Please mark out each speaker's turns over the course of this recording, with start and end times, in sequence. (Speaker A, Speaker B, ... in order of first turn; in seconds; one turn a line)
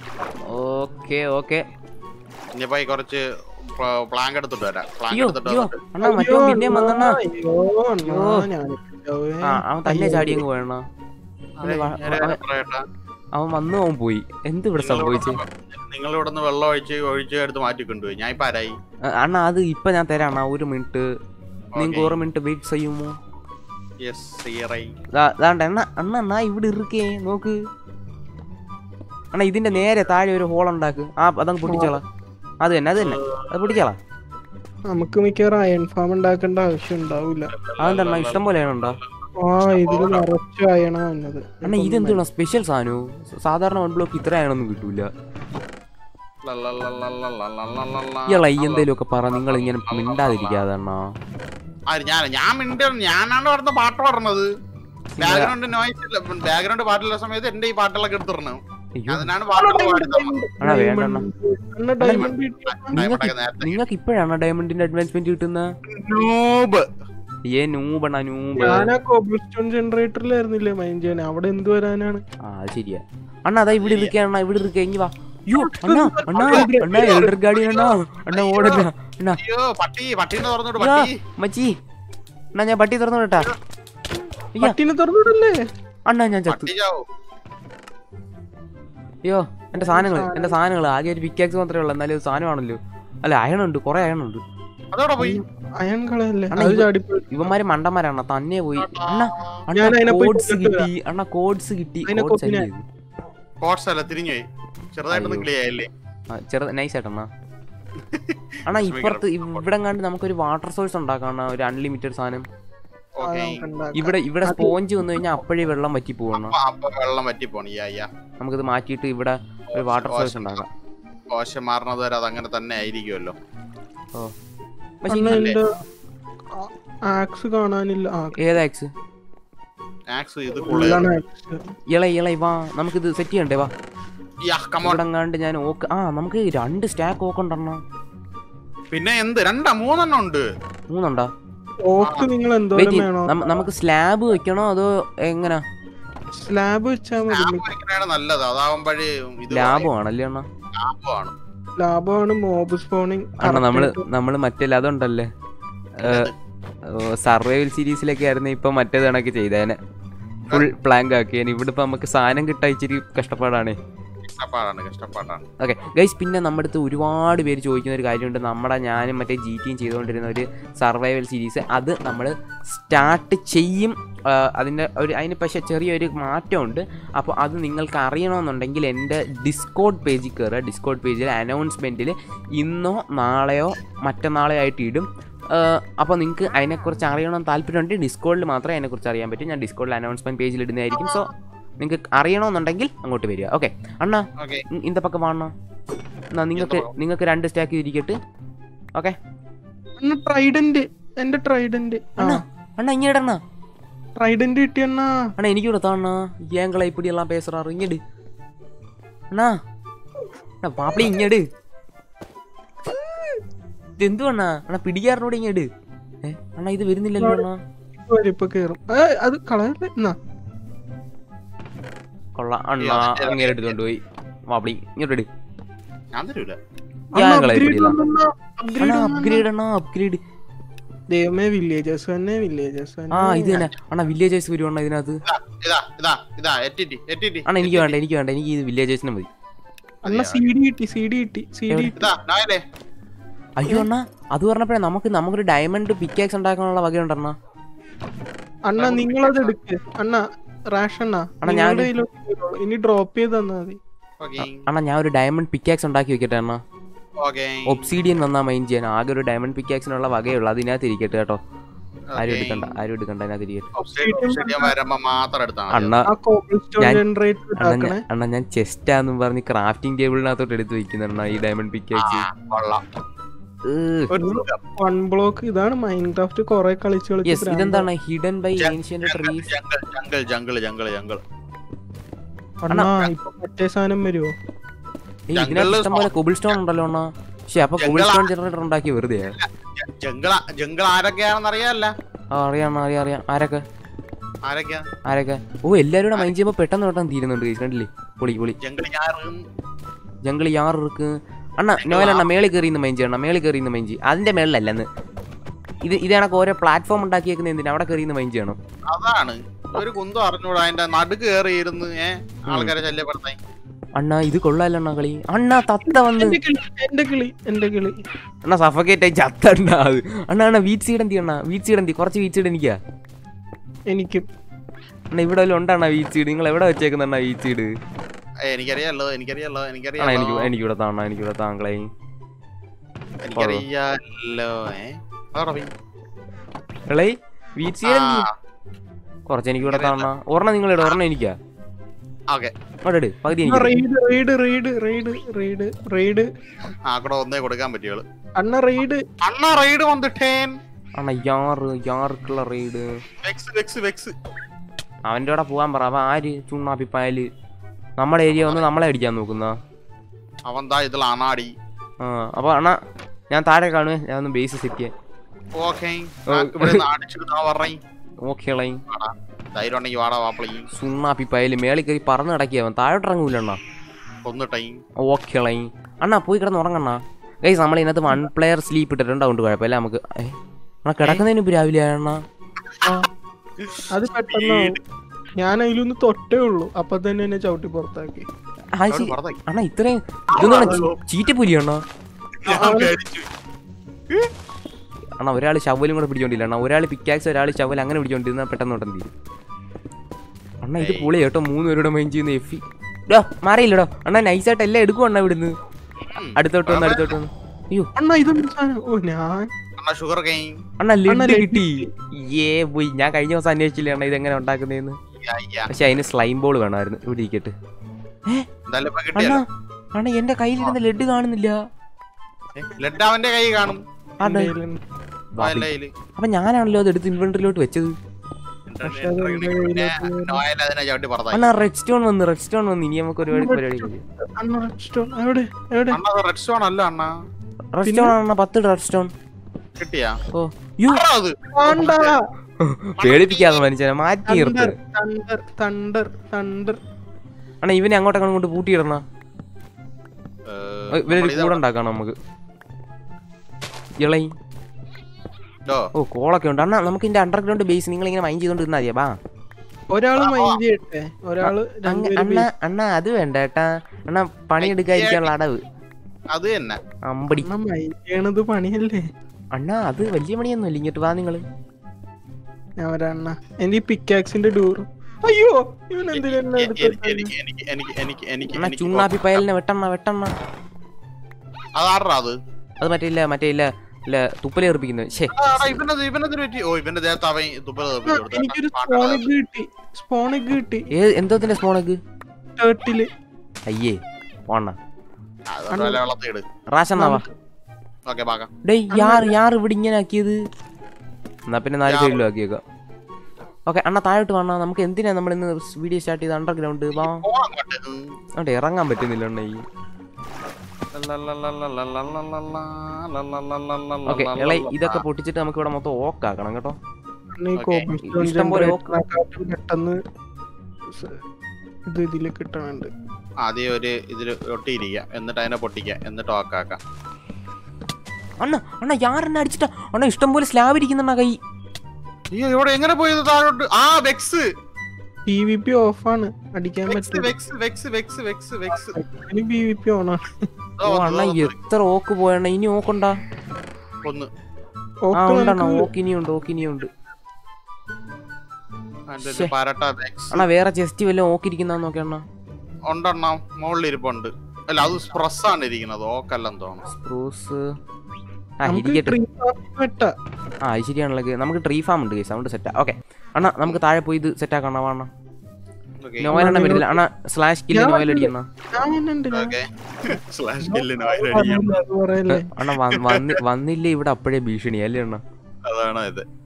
Speaker A: 0.5-1.6
Speaker B: 2.5-5.8
Speaker A: 5.1-7.2
Speaker C: 6.0-10.4
Speaker A: 8.1-8.4
Speaker A: 9.5-10.8
Speaker B: 11.6-12.8
Speaker A: 11.6-12.4
Speaker A: 13.4-15.4
Speaker B: 14.8-18.8
Speaker A: 19.1-21.1
Speaker B: 21.7-22.1
Speaker A: 21.8-23.1
Speaker B: 24.0-24.9
Speaker A: 25.1-27.6
Speaker A: 29.3-32.0
Speaker B: 29.7-30.1
Speaker C: 31.7-32.0
Speaker A: 32.6-34.0
Speaker B: 33.0-33.8
Speaker C: 34.9-37.5
Speaker B: 37.5-39.1
Speaker A: 37.8-39.0
Speaker C: 39.4-42.2
Speaker B: 39.7-40.3
Speaker A: 41.6-45.1
Speaker B: 46.5-50.7
Speaker A: 48.3-51.1
Speaker B: 51.9-54.5
Speaker A: 55.1-55.5
Speaker B: 55.2-60.4
Speaker A: 59.0-59.3
Speaker C: 59.5-63.0
Speaker A: 60.6-61.3
Speaker A: 62.0-62.3
Speaker B: 62.1-63.8
Speaker A: 63.0-65.7
Speaker B: 65.9-66.9
Speaker A: 67.5-68.9
Speaker C: 68.6-72.2
Speaker A: 72.5-79.4
Speaker B: 73.8-74.1
Speaker C: 75.6-77.3
Speaker B: 76.4-81.2
Speaker A: 80.8-81.8
Speaker A: 82.5-83.5
Speaker C: 84.6-85.6
Speaker A: 86.1-86.7
Speaker B: 86.5-87.1
Speaker A: 89.2-94.4
Speaker C: 89.8-90.6
Speaker B: 94.9-95.4
Speaker C: 95.2-97.5
Speaker A: 96.5-102.8
Speaker B: 98.8-99.6
Speaker C: 99.8-100.9
Speaker C: 102.1-102.7
Speaker B: 103.6-105.9
Speaker A: 105.1-105.5
Speaker A: 106.3-107.3
Speaker B: 108.0-109.7
Speaker A: 108.7-112.5
Speaker B: 113.2-113.6
Speaker C: 113.2-114.8
Speaker A: 114.0-116.5
Speaker B: 116.3-118.1
Speaker A: 118.4-120.7
Speaker B: 119.7-120.7
Speaker B: 121.3-123.4
Speaker A: 125.0-125.4
Speaker C: 125.1-125.7
Speaker B: 125.3-125.6
Speaker C: 126.5-128.4
Speaker A: 128.4-128.9
Speaker B: 130.1-131.1
Speaker C: 130.7-131.7
Speaker A: 131.9-133.7
Speaker B: 134.4-135.0
Speaker A: 134.8-137.8
Speaker B: 138.9-140.5
Speaker A: 140.9-141.3
Speaker C: 141.8-143.7
Speaker B: 142.0-142.3
Speaker A: 142.8-145.6
Speaker C: 146.4-147.7
Speaker B: 147.3-149.9
Speaker A: 149.5-150.5
Speaker B: 150.7-151.3
Speaker C: 151.8-154.1
Speaker A: 153.4-155.3
Speaker A: 156.0-156.3
Speaker B: 156.0-156.3
Speaker A: 156.9-159.8
Speaker A: 160.5-163.8
Speaker B: 164.2-165.4
Speaker A: 165.6-191.3
Speaker C: 190.9-191.2
Speaker A: 191.8-195.5
Speaker B: 194.4-194.7
Speaker A: 196.3-198.2
Speaker B: 196.6-197.0
Speaker C: 200.0-202.4
Speaker A: 202.2-203.4
Speaker C: 204.2-205.3
Speaker A: 205.4-208.0
Speaker A: 210.6-211.5
Speaker A: 214.0-215.7
Speaker A: 216.2-217.6
Speaker C: 218.1-220.2
Speaker A: 222.4-224.0
Speaker B: 222.8-223.8
Speaker A: 224.5-225.3
Speaker B: 226.1-226.6
Speaker A: 227.2-228.0
Speaker C: 227.2-229.4
Speaker A: 228.8-230.2
Speaker C: 231.1-233.7
Speaker A: 233.1-235.2
Speaker B: 235.3-238.0
Speaker A: 237.5-239.3
Speaker B: 240.0-240.5
Speaker C: 240.1-242.1
Speaker A: 241.7-242.0
Speaker B: 242.0-242.6
Speaker A: 243.6-247.3
Speaker C: 248.7-253.8
Speaker B: 248.8-249.6
Speaker A: 251.4-251.9
Speaker B: 254.2-254.7
Speaker A: 254.4-256.6
Speaker B: 257.2-257.9
Speaker A: 257.7-261.4
Speaker B: 262.1-262.8
Speaker A: 262.2-263.7
Speaker B: 263.8-266.0
Speaker C: 264.0-264.7
Speaker A: 265.7-266.1
Speaker C: 266.1-268.0
Speaker A: 267.6-272.2
Speaker B: 272.0-272.8
Speaker A: 273.7-274.1
Speaker C: 274.1-277.9
Speaker B: 274.1-274.6
Speaker A: 277.2-279.5
Speaker B: 278.6-281.2
Speaker C: 282.6-284.3
Speaker A: 282.7-283.1
Speaker A: 285.3-289.4
Speaker B: 285.3-286.1
Speaker B: 287.8-288.3
Speaker B: 289.2-291.9
Speaker A: 292.3-293.6
Speaker B: 294.5-294.9
Speaker A: 295.1-298.6
Speaker B: 298.6-299.4
Speaker A: 300.2-304.9
Speaker B: 301.8-302.3
Speaker A: 305.9-308.6
Speaker B: 308.9-313.4
Speaker A: 312.5-312.7
Speaker A: 314.0-316.4
Speaker C: 315.9-318.0
Speaker A: 318.5-322.8
Speaker C: 323.9-324.2
Speaker A: 325.1-327.7
Speaker B: 328.5-330.5
Speaker A: 330.0-331.9
Speaker B: 333.2-335.7
Speaker A: 333.4-333.6
Speaker A: 336.9-338.3
Speaker B: 337.9-338.3
Speaker A: 339.3-341.4
Speaker B: 339.6-340.1
Speaker A: 342.9-343.8
Speaker C: 343.4-346.3
Speaker B: 346.9-348.1
Speaker C: 348.4-349.0
Speaker B: 349.2-350.5
Speaker A: 351.0-352.9
Speaker B: 353.2-354.2
Speaker A: 355.1-357.3
Speaker A: 358.0-359.6
Speaker B: 358.3-358.7
Speaker B: 360.5-361.5
Speaker A: 362.0-362.8
Speaker A: 363.3-364.9
Speaker B: 365.6-367.8
Speaker A: 366.3-366.8
Speaker A: 368.3-368.8
Speaker B: 368.9-370.7
Speaker A: 370.7-373.6
Speaker B: 374.2-374.8
Speaker A: 375.0-382.2
Speaker C: 382.8-383.1
Speaker B: 383.6-384.8
Speaker C: 383.9-384.8
Speaker C: 385.4-388.3
Speaker A: 388.8-391.8
Speaker B: 388.9-389.4
Speaker B: 390.3-391.3
Speaker C: 390.4-390.8
Speaker B: 392.4-393.3
Speaker C: 392.4-392.9
Speaker A: 395.2-399.1
Speaker A: 400.6-405.5
Speaker B: 400.8-401.1
Speaker B: 406.1-407.1
Speaker A: 406.4-407.9
Speaker C: 408.0-409.5
Speaker B: 409.8-410.6
Speaker A: 410.8-415.0
Speaker C: 411.1-411.9
Speaker B: 415.2-415.7
Speaker A: 415.7-417.5
Speaker B: 418.7-419.4
Speaker A: 419.1-419.4
Speaker A: 420.0-421.6
Speaker B: 422.6-423.8
Speaker A: 424.2-424.5
Speaker C: 424.2-424.8
Speaker A: 425.4-427.9
Speaker B: 425.4-425.9
Speaker B: 428.7-431.5
Speaker C: 428.9-430.4
Speaker A: 431.3-434.0
Speaker C: 433.3-436.0
Speaker B: 435.9-437.1
Speaker A: 437.7-439.1
Speaker C: 437.9-438.2
Speaker B: 439.8-440.2
Speaker A: 440.3-441.0
Speaker B: 440.9-442.1
Speaker C: 441.5-442.2
Speaker A: 442.6-444.8
Speaker B: 443.0-443.7
Speaker C: 444.3-446.8
Speaker A: 447.6-449.0
Speaker B: 450.5-451.6
Speaker A: 450.9-452.1
Speaker A: 454.0-454.3
Speaker A: 456.0-459.1
Speaker C: 459.9-462.5
Speaker B: 460.2-460.6
Speaker A: 461.4-465.6
Speaker B: 464.6-465.3
Speaker B: 466.3-466.8
Speaker A: 467.1-467.5
Speaker C: 467.4-469.1
Speaker A: 469.6-471.4
Speaker C: 472.8-477.3
Speaker B: 476.1-479.4
Speaker A: 478.6-480.3
Speaker B: 481.8-482.4
Speaker A: 482.8-485.8
Speaker B: 485.3-489.3
Speaker C: 488.1-490.9
Speaker A: 490.9-492.0
Speaker C: 492.6-493.1
Speaker A: 493.7-494.8
Speaker B: 495.5-496.4
Speaker C: 495.7-496.0
Speaker A: 496.7-497.2
Speaker C: 497.0-497.3
Speaker B: 498.1-498.5
Speaker A: 498.7-500.4
Speaker C: 498.9-499.4
Speaker A: 501.5-502.6
Speaker B: 501.9-502.3
Speaker A: 503.7-507.2
Speaker B: 506.9-508.1
Speaker A: 508.4-509.6
Speaker B: 510.9-515.0
Speaker A: 514.1-516.8
Speaker C: 517.4-520.0
Speaker B: 517.6-517.9
Speaker A: 518.0-518.8
Speaker C: 520.9-521.2
Speaker C: 521.9-522.9
Speaker B: 523.4-526.8
Speaker A: 528.4-531.4
Speaker B: 532.3-534.5
Speaker C: 535.3-537.3
Speaker B: 536.9-539.0
Speaker C: 538.7-540.5
Speaker B: 540.8-541.5
Speaker A: 540.8-543.1
Speaker B: 544.0-544.3
Speaker C: 545.1-545.9
Speaker A: 545.1-546.9
Speaker B: 549.1-550.5
Speaker A: 549.2-549.5
Speaker A: 550.3-552.2
Speaker B: 552.9-556.9
Speaker A: 556.9-557.6
Speaker A: 558.6-559.2
Speaker C: 558.7-560.1
Speaker A: 560.7-565.1
Speaker B: 566.0-566.5
Speaker A: 566.2-568.5
Speaker C: 566.3-567.0
Speaker C: 567.7-569.5
Speaker B: 569.3-571.8
Speaker C: 570.6-572.5
Speaker A: 572.3-575.2
Speaker B: 572.8-573.4
Speaker B: 575.7-576.2